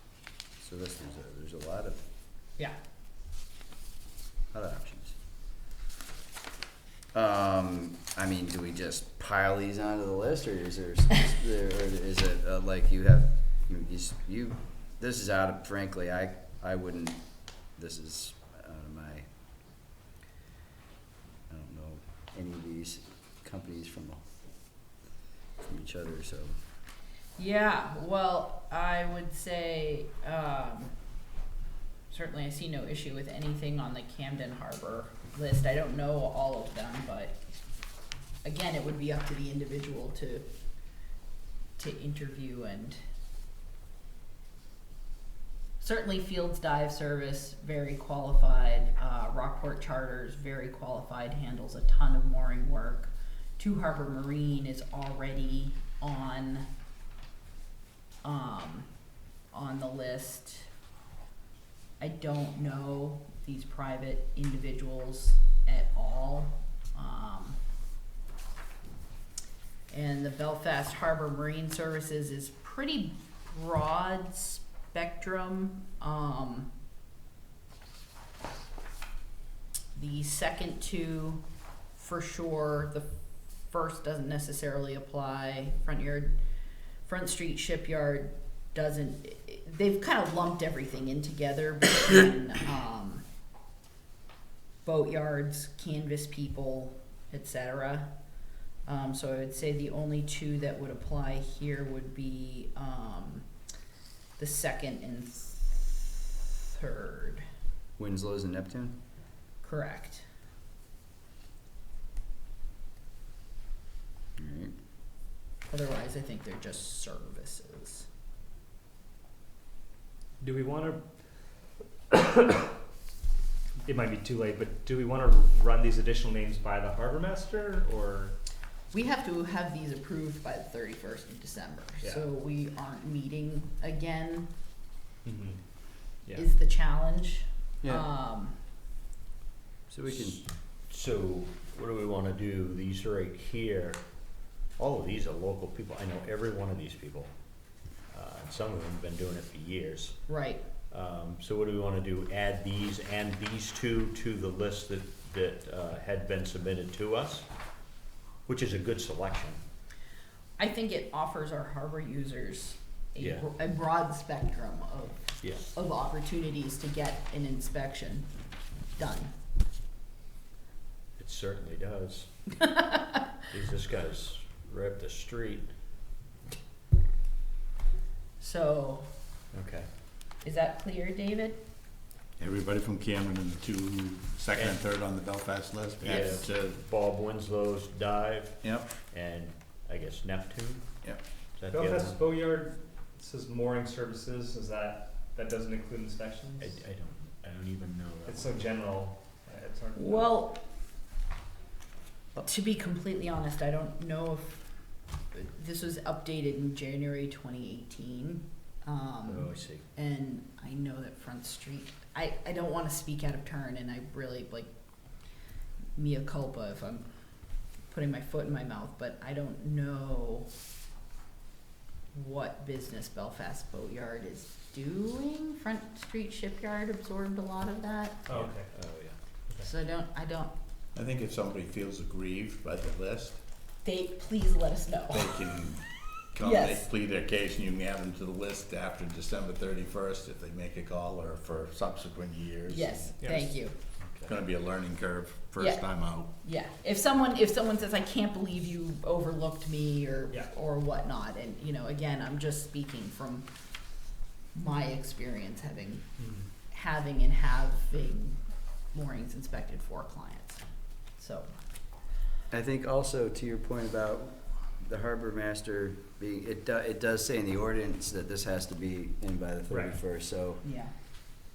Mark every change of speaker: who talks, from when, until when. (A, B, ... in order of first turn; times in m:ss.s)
0:00.6-0:02.0 A
0:04.5-0:05.2 A
0:07.1-0:17.2 A
0:17.8-0:19.3 A
0:21.5-0:24.2 A
0:25.6-0:26.5 A
0:27.4-0:30.9 B
0:32.1-0:37.4 B
0:38.4-0:40.4 B
0:41.8-0:43.0 B
0:45.8-0:56.7 B
0:58.2-0:58.9 B
0:59.5-1:00.7 B
1:02.0-1:07.6 B
1:09.9-1:16.7 B
1:20.0-1:21.4 B
1:22.0-1:23.1 B
1:23.7-1:26.3 B
1:27.0-1:33.2 B
1:34.8-1:38.1 B
1:38.9-1:43.5 B
1:44.4-1:47.4 B
1:48.0-1:49.0 A
1:49.6-1:50.2 B
1:54.4-1:54.7 A
1:55.7-1:58.1 B
2:00.4-2:01.0 C
2:02.1-2:02.7 C
2:03.8-2:08.4 C
2:08.9-2:14.5 B
2:15.2-2:15.6 C
2:16.4-2:18.6 B
2:17.8-2:18.1 A
2:19.9-2:20.4 A
2:20.1-2:24.0 D
2:24.7-2:30.2 D
2:30.3-2:30.6 B
2:30.9-2:37.5 D
2:38.5-2:39.6 D
2:40.6-2:48.3 B
2:43.2-2:43.5 D
2:45.4-2:45.7 D
2:49.0-2:49.3 B
2:51.2-2:55.7 D
2:58.4-2:59.1 B
2:59.5-2:59.9 D
3:00.4-3:01.6 B
3:02.4-3:06.8 E
3:06.0-3:10.9 D
3:08.6-3:09.0 E
3:11.6-3:12.2 D
3:11.7-3:16.8 C
3:16.6-3:18.6 D
3:18.3-3:20.4 C
3:20.0-3:20.6 B
3:22.4-3:24.6 B
3:25.3-3:34.7 B
3:29.3-3:29.8 D
3:36.0-3:37.1 B
3:37.9-3:40.5 B
3:42.1-3:48.3 B
3:48.3-3:48.7 C
3:48.3-3:49.2 D
3:49.6-3:50.5 B
3:51.0-3:53.4 E
3:53.8-3:55.4 B
3:55.1-4:03.3 E
3:56.4-3:56.8 B
4:02.7-4:03.8 B
4:03.2-4:03.5 C
4:04.0-4:04.4 D
4:04.2-4:06.3 E
4:05.6-4:05.8 B
4:06.4-4:13.5 B
4:14.6-4:16.1 B
4:16.2-4:16.5 C
4:16.7-4:18.4 B
4:18.9-4:20.6 B
4:21.2-4:21.5 B
4:22.5-4:30.6 A
4:29.7-4:30.0 C
4:30.6-4:30.9 B